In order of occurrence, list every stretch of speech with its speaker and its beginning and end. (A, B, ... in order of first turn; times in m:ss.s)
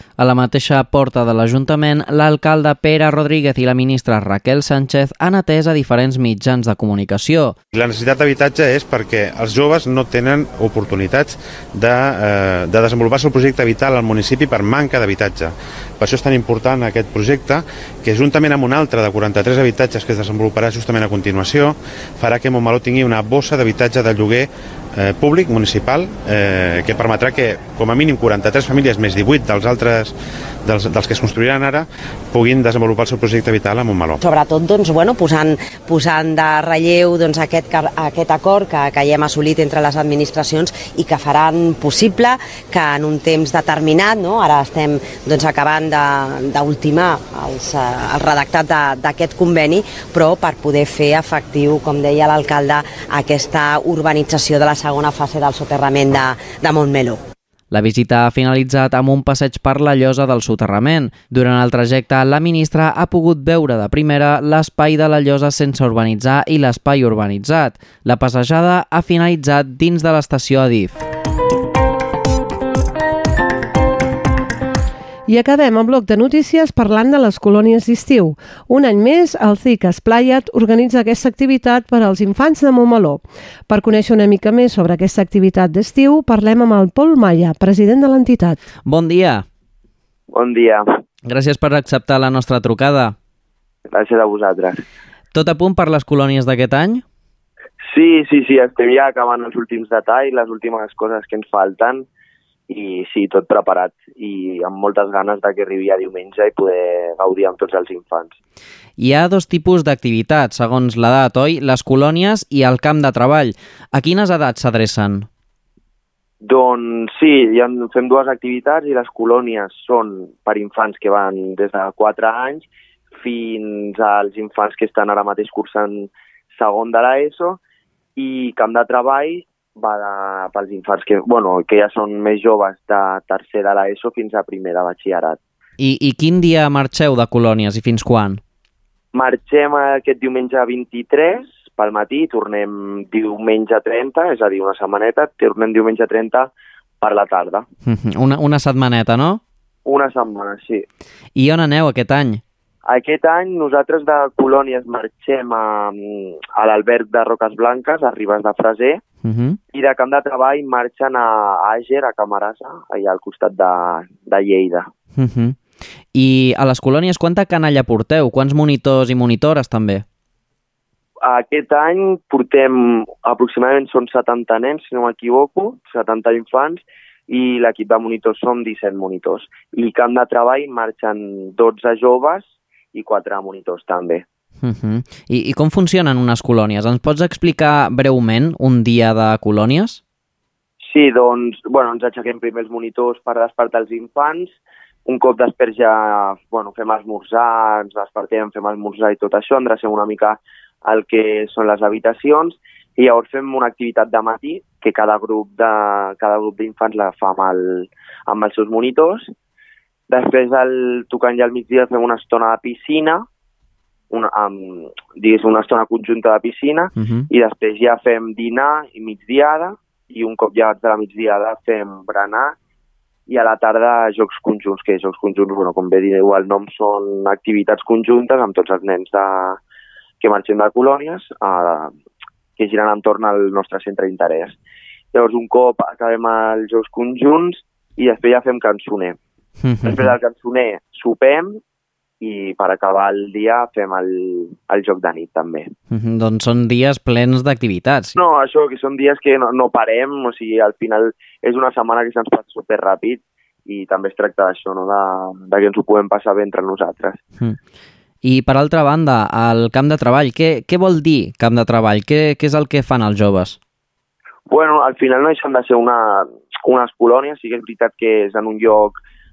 0:00.2-0:07.6 A
0:07.7-0:34.2 B
0:34.2-0:57.2 C
0:57.7-1:11.0 A
1:15.3-1:28.6 D
1:28.9-1:29.4 A
1:30.3-1:30.9 E
1:31.3-1:33.2 A
1:33.9-1:34.8 E
1:35.3-1:37.0 A
1:37.8-1:42.1 E
1:42.7-1:48.3 E
1:49.0-1:55.3 A
1:56.4-2:07.6 E
2:08.2-2:15.4 E
2:15.8-2:18.4 A
2:19.1-2:26.5 E
2:27.0-2:27.6 E
2:27.9-2:29.4 A
2:29.9-2:30.8 E
2:31.4-2:32.4 A
2:32.9-2:39.0 E
2:39.2-2:39.6 A
2:39.7-2:44.9 E
2:45.2-2:45.6 A
2:46.1-2:50.0 A
2:51.2-3:04.2 E
3:04.6-3:10.0 A
3:10.8-3:14.5 E
3:15.1-3:29.3 E
3:30.1-3:33.2 E
3:34.1-3:42.6 E
3:37.0-3:37.3 A
3:43.3-3:49.6 E
3:50.2-3:51.9 E
3:52.6-3:54.6 E
3:55.1-3:59.2 E
3:59.6-4:00.2 A
3:59.8-4:01.6 E
4:02.2-4:05.7 E
4:05.9-4:08.2 A
4:08.2-4:17.2 E
4:18.2-4:23.6 A
4:24.5-4:29.0 E